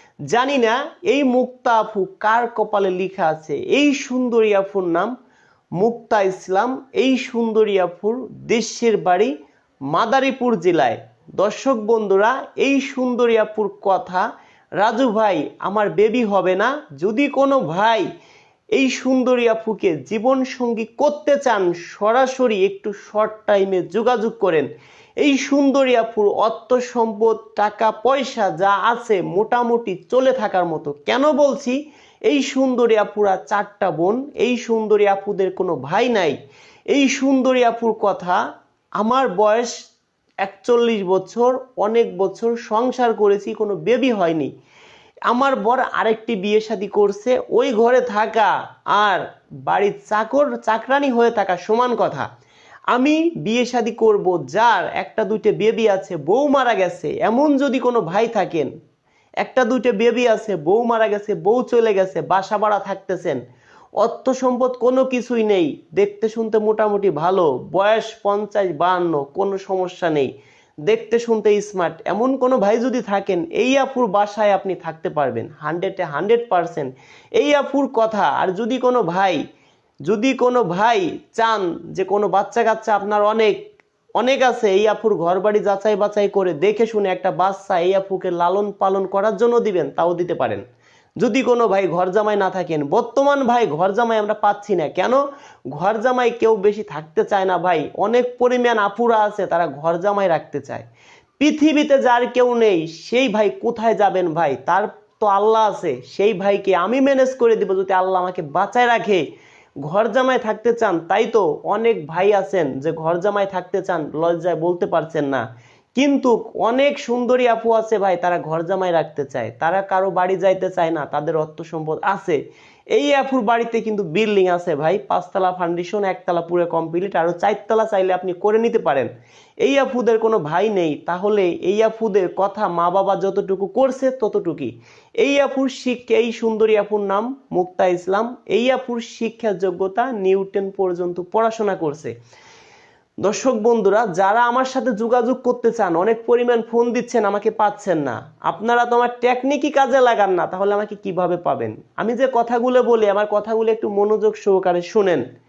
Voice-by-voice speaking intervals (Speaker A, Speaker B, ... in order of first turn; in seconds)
Speaker A: 0.3-5.1, 5.8-9.3, 9.9-14.2, 14.8-18.1, 18.7-24.7, 25.2-36.3, 36.9-38.4, 39.0-39.8, 40.4-44.5, 45.3-52.3, 52.9-58.7, 59.4-63.4, 64.0-70.3, 70.9-79.4, 80.1-83.7, 84.2-90.6, 91.2-95.2, 95.7-100.8, 101.4-109.2, 109.8-122.4, 122.9-129.1, 129.6-142.2, 143.2-155.2